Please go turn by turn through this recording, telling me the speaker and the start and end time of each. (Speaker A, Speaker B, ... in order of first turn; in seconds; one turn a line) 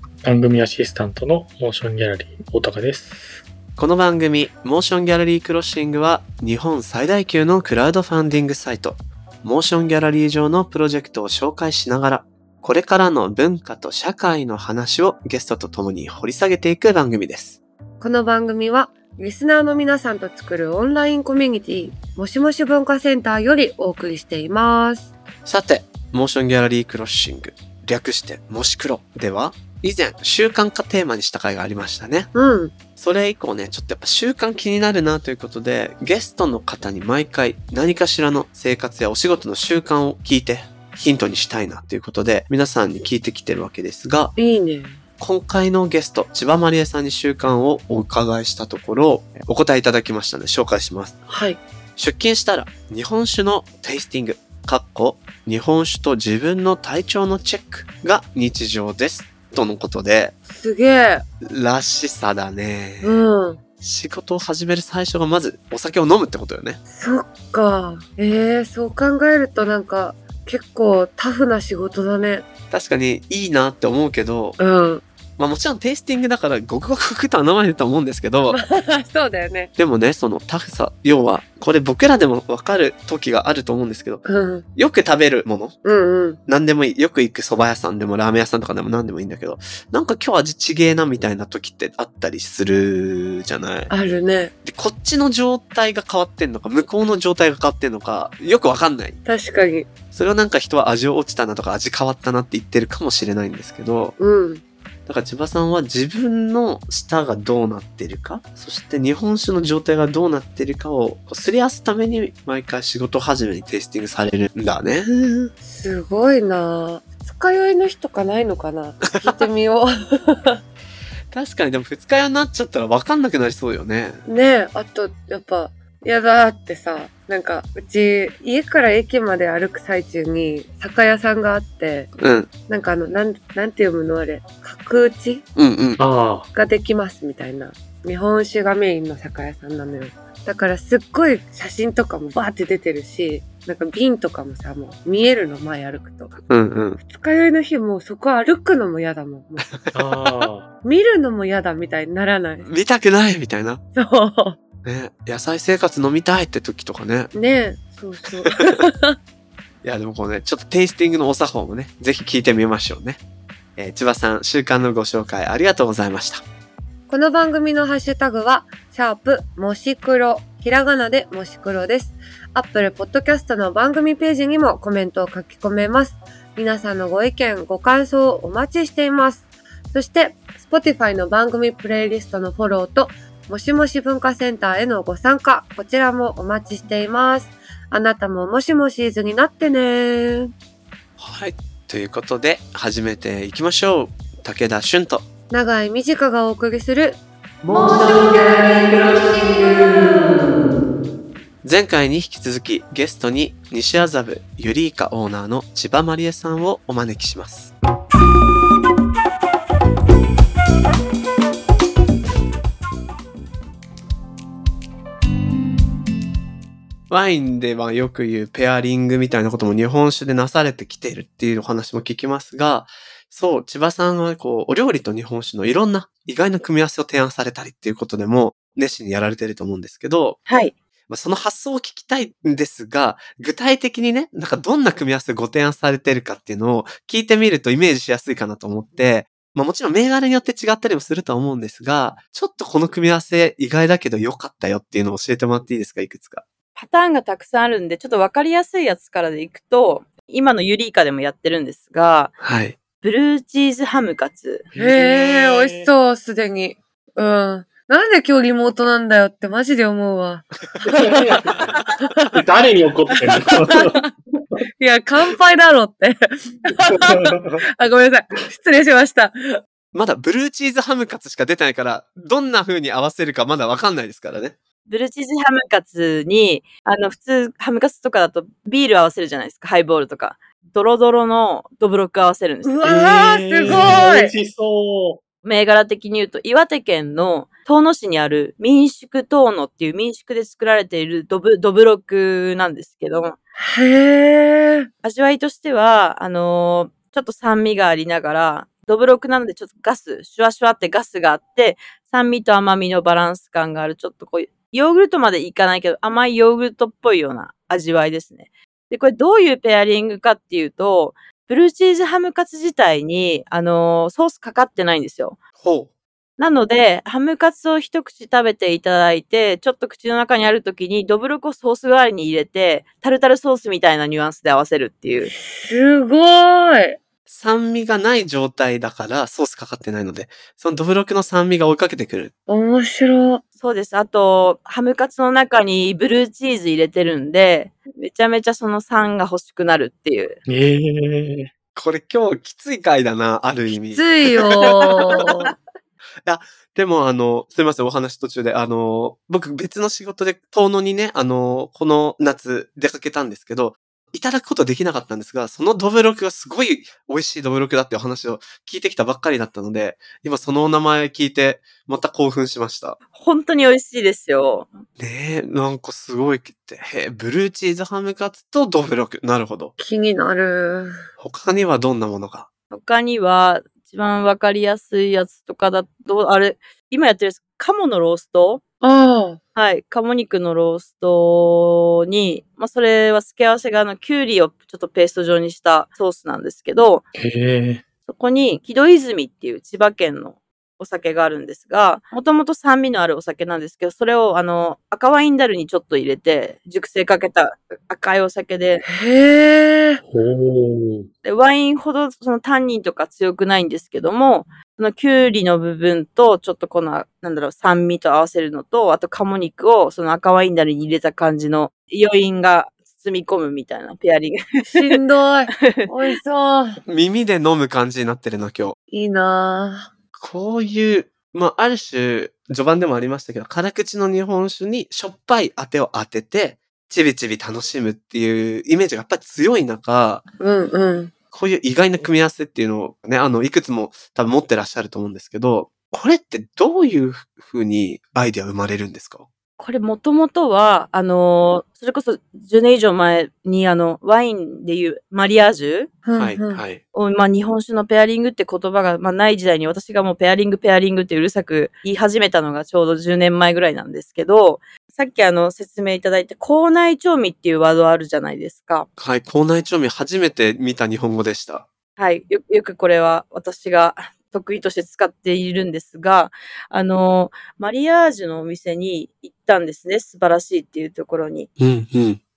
Speaker A: 0.2-3.4
Speaker B: 3.8-17.6
Speaker C: 18.0-25.1
Speaker B: 25.4-32.3
Speaker C: 32.3-32.8
Speaker B: 33.0-44.3
Speaker C: 44.4-45.0
Speaker B: 45.2-51.2
Speaker C: 51.3-51.6
Speaker B: 52.0-60.3
Speaker C: 60.5-61.2
Speaker B: 61.4-63.2
Speaker C: 63.0-63.6
Speaker B: 63.8-66.8
Speaker C: 66.9-72.5
Speaker B: 72.7-74.6
Speaker C: 74.6-75.0
Speaker B: 75.4-78.6
Speaker C: 78.5-79.7
Speaker B: 79.8-84.2
Speaker C: 84.2-84.7
Speaker B: 84.8-85.8
Speaker C: 85.8-86.4
Speaker B: 86.5-93.9
Speaker C: 93.9-94.5
Speaker B: 94.7-99.2
Speaker C: 99.2-99.9
Speaker B: 100.1-104.2
Speaker C: 104.2-104.6
Speaker B: 105.1-115.5
Speaker C: 115.6-120.6
Speaker B: 119.1-119.4
Speaker B: 121.3-124.2
Speaker C: 124.3-132.1
Speaker B: 132.2-132.5
Speaker C: 132.7-135.5
Speaker B: 135.6-136.0
Speaker A: 136.0-136.5
Speaker C: 136.5-146.4
Speaker B: 146.5-147.0
Speaker C: 147.0-149.7
Speaker B: 149.8-150.3
Speaker A: 149.9-150.7
Speaker C: 150.8-152.7
Speaker B: 152.6-153.8
Speaker C: 153.9-154.6
Speaker B: 154.8-157.3
Speaker C: 157.3-159.2
Speaker B: 159.8-163.2
Speaker B: 163.8-166.4
Speaker C: 167.1-190.5
Speaker B: 191.2-195.3
Speaker C: 195.5-200.6
Speaker B: 201.6-207.7
Speaker B: 217.1-230.4
Speaker D: 230.5-230.7
Speaker B: 231.1-246.4
Speaker D: 246.8-252.3
Speaker B: 252.4-252.8
Speaker D: 253.0-254.7
Speaker A: 254.7-255.9
Speaker C: 254.8-262.4
Speaker A: 260.9-261.7
Speaker A: 262.3-264.0
Speaker C: 263.7-264.1
Speaker C: 264.8-269.6
Speaker A: 266.8-267.6
Speaker B: 269.9-274.6
Speaker D: 274.9-282.8
Speaker C: 282.6-284.3
Speaker A: 282.8-285.2
Speaker D: 285.4-293.4
Speaker C: 293.6-294.9
Speaker D: 295.0-315.4
Speaker B: 315.6-315.9
Speaker D: 316.4-325.3
Speaker C: 325.3-327.0
Speaker B: 327.3-332.3
Speaker C: 332.5-333.4
Speaker D: 333.6-340.4
Speaker A: 340.5-341.5
Speaker B: 341.8-344.7
Speaker C: 343.7-345.5
Speaker B: 346.2-363.0
Speaker D: 363.1-364.7
Speaker B: 365.0-369.7
Speaker C: 369.8-371.0
Speaker B: 371.2-372.5
Speaker D: 372.7-378.6
Speaker C: 378.8-379.4
Speaker D: 379.6-387.1
Speaker A: 387.2-387.8
Speaker D: 388.1-398.8
Speaker C: 398.9-400.0
Speaker A: 400.1-401.1
Speaker D: 401.2-415.0
Speaker C: 414.7-416.8
Speaker D: 415.6-415.9
Speaker B: 416.9-418.8
Speaker C: 418.9-419.9
Speaker B: 420.1-430.2
Speaker C: 430.4-431.1
Speaker B: 431.3-439.3
Speaker D: 439.6-445.9
Speaker C: 446.1-446.6
Speaker B: 446.2-446.8
Speaker D: 446.9-458.9
Speaker B: 459.0-461.7
Speaker D: 462.0-471.5
Speaker B: 471.6-472.2